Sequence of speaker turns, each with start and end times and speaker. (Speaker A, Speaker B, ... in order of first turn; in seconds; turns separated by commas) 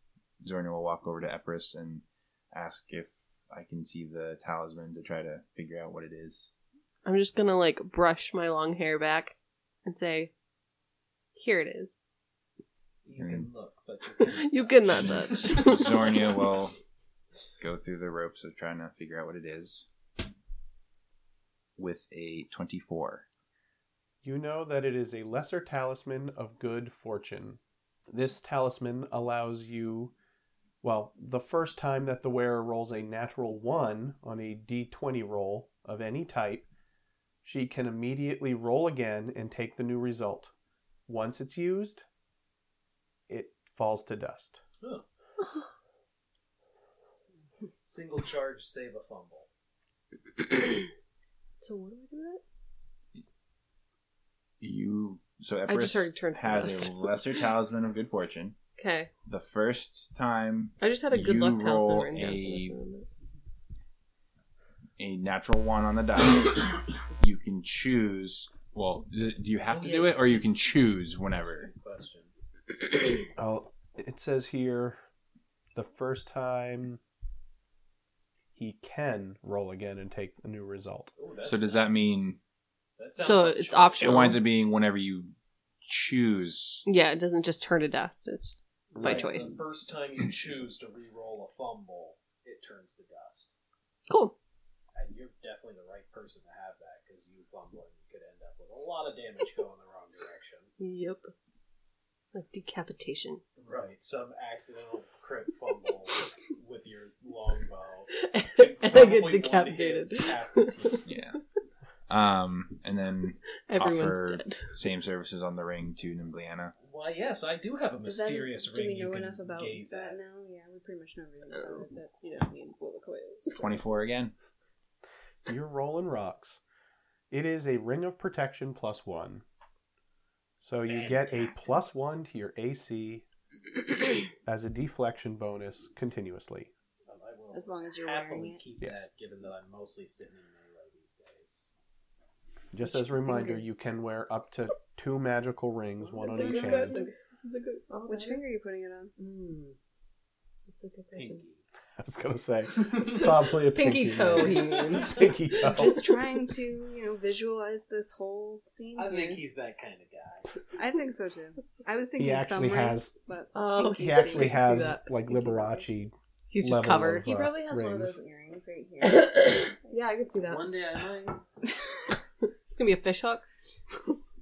Speaker A: 0.4-6.5, Speaker B: 7.0-10.3, Speaker B: 11.4-12.0, Speaker C: 13.0-16.2, Speaker A: 13.2-13.5, Speaker B: 14.2-16.3, Speaker A: 14.9-16.8, Speaker A: 17.6-19.9, Speaker A: 21.8-23.2, Speaker D: 24.2-30.1, Speaker D: 30.8-36.7, Speaker D: 37.4-40.5, Speaker D: 41.1-42.0, Speaker D: 43.3-44.6, Speaker C: 47.8-49.5, Speaker B: 51.6-52.4, Speaker A: 54.6-58.6, Speaker B: 55.7-57.0, Speaker B: 58.8-59.1, Speaker A: 59.3-62.8, Speaker B: 60.8-63.1, Speaker A: 65.0-71.7, Speaker C: 69.6-70.6, Speaker C: 71.2-72.3, Speaker D: 73.3-75.0, Speaker D: 75.8-77.0, Speaker D: 78.5-81.1, Speaker C: 81.2-82.2, Speaker A: 81.4-82.4, Speaker C: 83.0-84.5, Speaker B: 83.2-84.4, Speaker A: 84.0-85.3, Speaker A: 85.8-86.8, Speaker B: 86.8-89.6, Speaker D: 88.9-89.5, Speaker C: 89.0-93.5, Speaker B: 94.1-94.3, Speaker C: 95.0-100.7, Speaker B: 100.8-101.3, Speaker B: 102.3-103.4, Speaker C: 103.6-111.1, Speaker B: 108.1-111.0, Speaker A: 111.0-111.4, Speaker A: 112.1-116.7, Speaker B: 113.6-114.7, Speaker C: 116.8-120.2, Speaker E: 118.0-124.1, Speaker B: 121.5-122.5, Speaker A: 123.5-124.3, Speaker D: 125.5-126.6, Speaker D: 127.3-129.4, Speaker D: 130.6-133.2, Speaker C: 130.9-131.9, Speaker D: 134.4-136.7, Speaker C: 137.1-141.7, Speaker E: 137.5-138.6, Speaker D: 142.7-147.0, Speaker E: 142.9-143.6, Speaker E: 146.2-147.1, Speaker B: 146.2-148.4, Speaker E: 148.1-149.1, Speaker B: 149.2-149.8, Speaker B: 150.7-151.4, Speaker C: 151.1-151.6, Speaker D: 152.0-156.1, Speaker B: 153.4-155.7, Speaker E: 155.6-159.4, Speaker C: 158.9-160.5, Speaker E: 160.7-165.9, Speaker D: 162.2-163.1, Speaker B: 163.5-165.1, Speaker D: 164.0-168.2, Speaker B: 166.5-167.5, Speaker E: 167.3-170.0, Speaker B: 169.0-170.7, Speaker C: 170.4-171.4, Speaker B: 172.7-173.5